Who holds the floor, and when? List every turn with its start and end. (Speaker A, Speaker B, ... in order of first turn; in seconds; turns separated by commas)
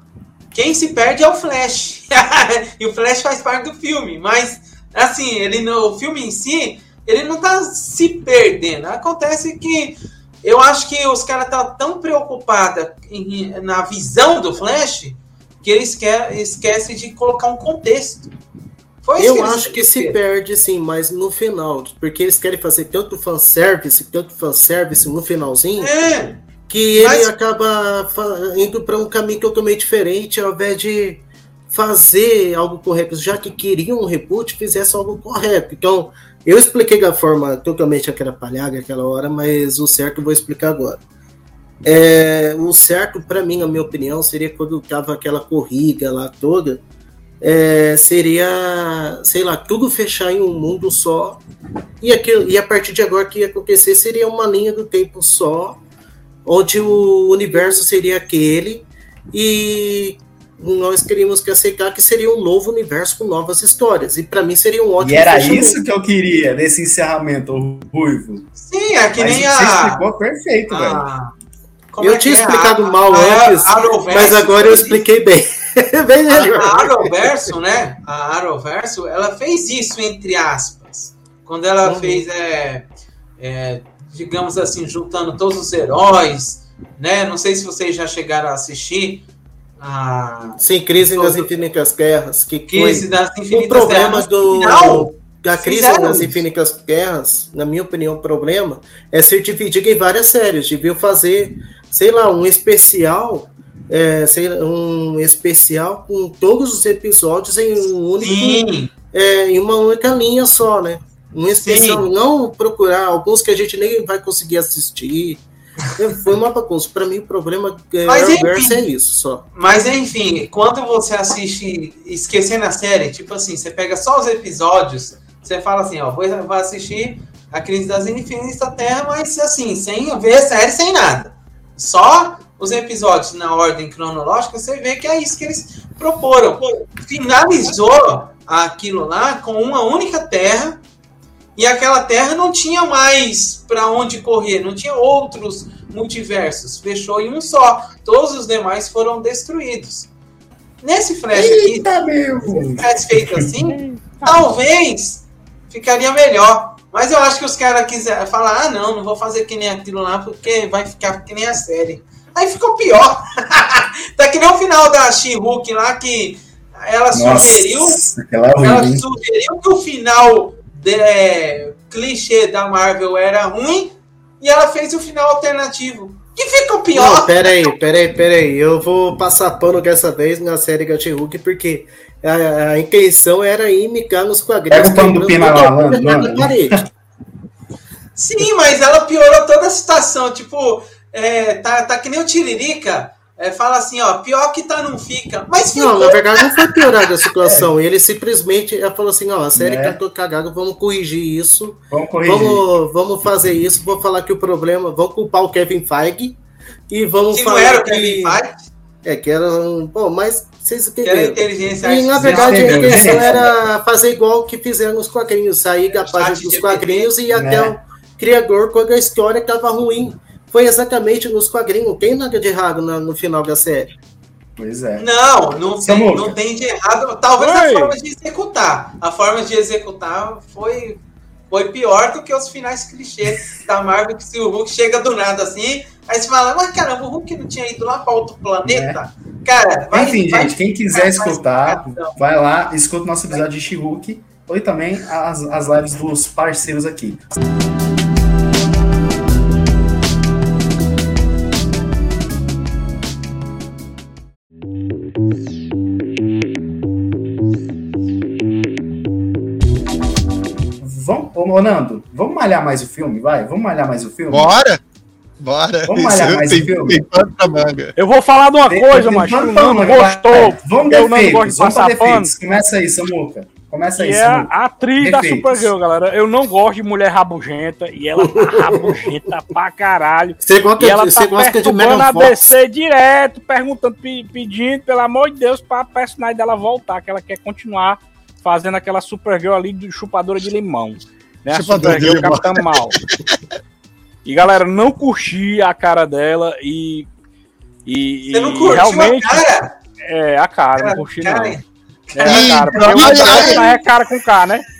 Speaker A: 0.5-18.3, Speaker A: 19.0-20.2, Speaker B: 19.2-25.9, Speaker A: 25.8-26.4, Speaker B: 26.7-41.0, Speaker A: 26.9-27.3, Speaker B: 41.8-46.8, Speaker B: 47.4-51.4, Speaker B: 52.0-55.8, Speaker B: 56.5-65.8, Speaker C: 65.0-68.5, Speaker A: 68.6-70.0, Speaker C: 69.2-71.0, Speaker A: 70.7-71.3, Speaker A: 71.9-75.0, Speaker B: 72.0-77.3, Speaker A: 76.3-82.8, Speaker B: 81.8-82.2, Speaker A: 83.4-89.2, Speaker A: 89.8-91.5, Speaker B: 90.6-115.4, Speaker A: 92.7-96.4, Speaker A: 108.2-108.9, Speaker A: 111.6-112.0, Speaker B: 116.0-119.5, Speaker A: 118.0-118.8, Speaker A: 119.5-140.8, Speaker A: 141.6-150.1, Speaker A: 150.8-151.9, Speaker C: 151.3-153.4, Speaker A: 152.4-168.0, Speaker D: 153.7-154.4, Speaker C: 167.1-169.0, Speaker A: 168.6-177.7, Speaker B: 176.9-186.8, Speaker C: 184.7-186.8, Speaker A: 188.2-196.9, Speaker B: 195.7-206.4, Speaker C: 197.4-197.7, Speaker C: 199.5-200.0, Speaker C: 201.9-202.6, Speaker B: 206.9-208.4, Speaker A: 207.3-208.7, Speaker B: 209.0-223.9, Speaker A: 211.0-213.5, Speaker C: 212.2-213.5, Speaker A: 215.9-217.1, Speaker C: 217.3-217.7, Speaker C: 224.6-225.1, Speaker A: 225.0-242.2, Speaker C: 225.8-226.4, Speaker D: 227.4-227.9, Speaker C: 238.6-239.0, Speaker C: 239.9-247.3, Speaker C: 260.8-264.5, Speaker E: 264.3-264.8, Speaker E: 265.4-267.9, Speaker C: 265.9-267.0, Speaker D: 267.9-272.3, Speaker C: 268.7-275.7, Speaker D: 274.0-293.0, Speaker B: 278.2-278.9, Speaker B: 280.4-282.5, Speaker E: 291.5-293.4, Speaker D: 294.2-297.1, Speaker D: 297.9-299.4, Speaker A: 298.3-299.7, Speaker D: 300.0-301.6, Speaker A: 300.8-301.6, Speaker D: 302.1-304.6, Speaker E: 302.2-303.8, Speaker B: 302.4-303.6